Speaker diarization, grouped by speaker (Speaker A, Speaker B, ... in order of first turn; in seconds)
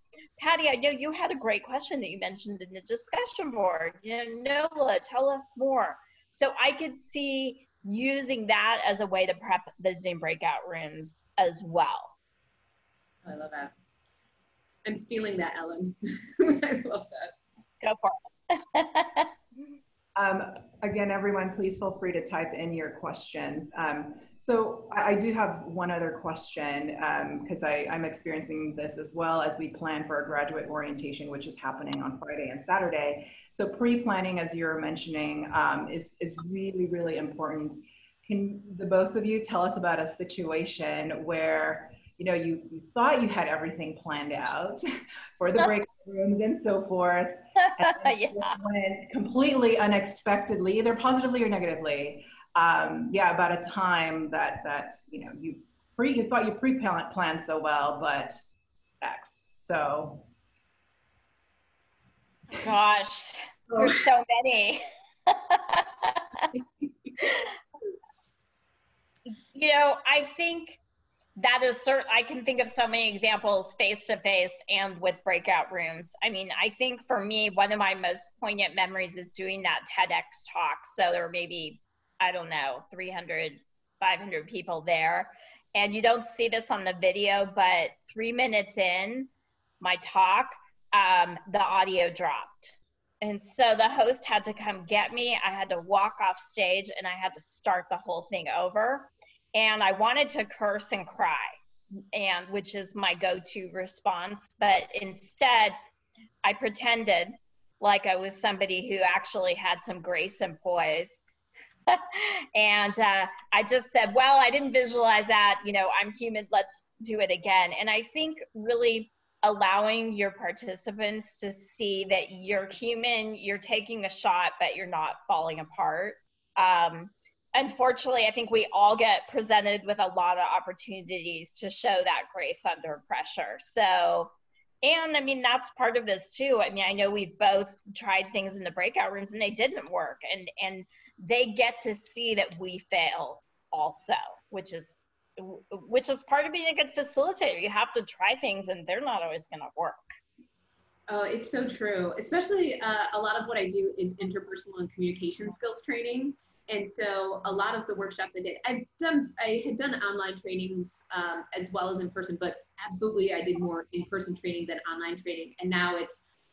Speaker A: 0.4-12.1, 17.8-19.3, 47.8-48.5, 62.5-66.5, 67.2-67.5, 69.5-70.8, 71.3-89.3, 89.8-101.5, 102.1-105.8, 106.4-111.2, 111.9-150.1
Speaker B: 13.2-13.7, 14.8-17.3, 151.1-166.2
Speaker C: 20.1-44.8, 45.4-58.4, 59.0-60.3